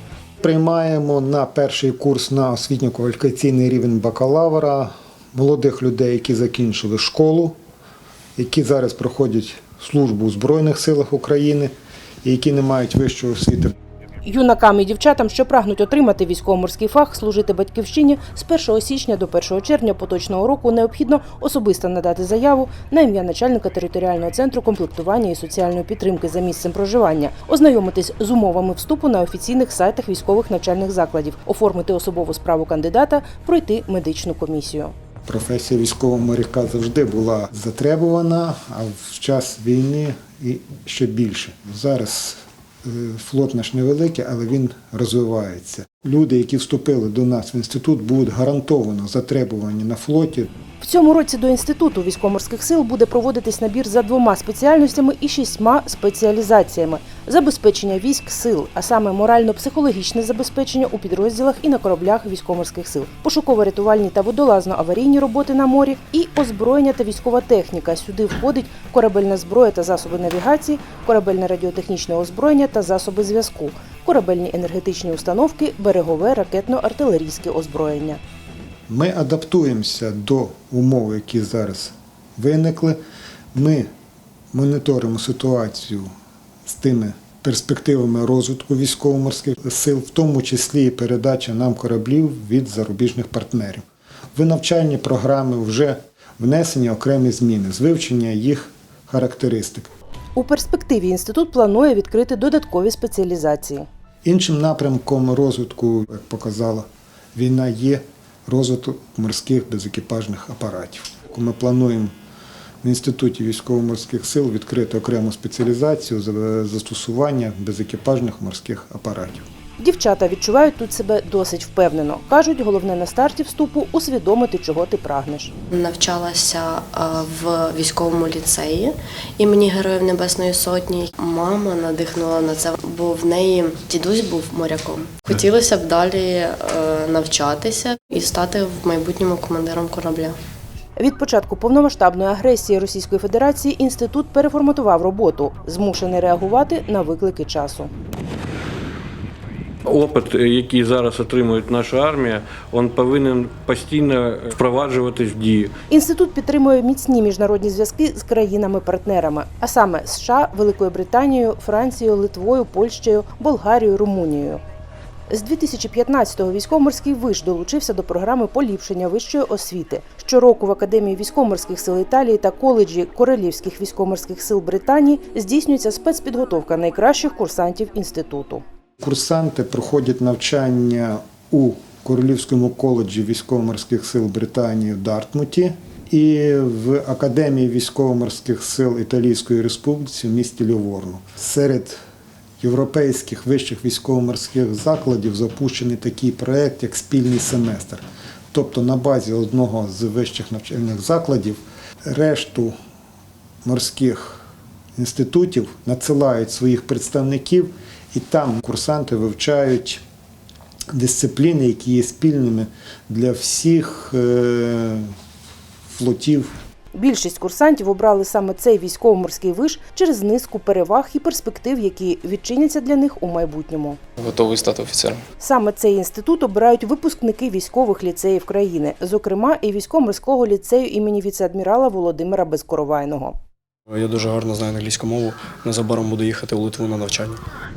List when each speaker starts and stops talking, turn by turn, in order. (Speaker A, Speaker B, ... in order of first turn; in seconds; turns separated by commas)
Speaker A: 0.4-7.5, Speaker A: 8.4-11.7, Speaker A: 12.2-13.7, Speaker B: 14.2-34.9, Speaker A: 35.3-50.5, Speaker B: 50.8-78.2, Speaker A: 78.9-83.0, Speaker A: 83.5-83.9, Speaker A: 84.5-86.1, Speaker A: 86.7-99.9, Speaker B: 100.4-103.9, Speaker A: 104.2-112.1, Speaker A: 112.8-119.5, Speaker B: 119.8-125.5, Speaker C: 125.7-140.4, Speaker B: 141.0-147.9, Speaker D: 149.8-155.7, Speaker B: 155.9-164.6, Speaker B: 165.3-178.6, Speaker A: 179.0-192.0, Speaker A: 192.6-202.8, Speaker A: 203.7-204.4, Speaker A: 205.0-210.0, Speaker A: 210.9-215.1, Speaker A: 215.9-216.5, Speaker B: 216.9-224.0, Speaker E: 224.2-225.2, Speaker B: 225.4-233.4, Speaker E: 233.9-237.4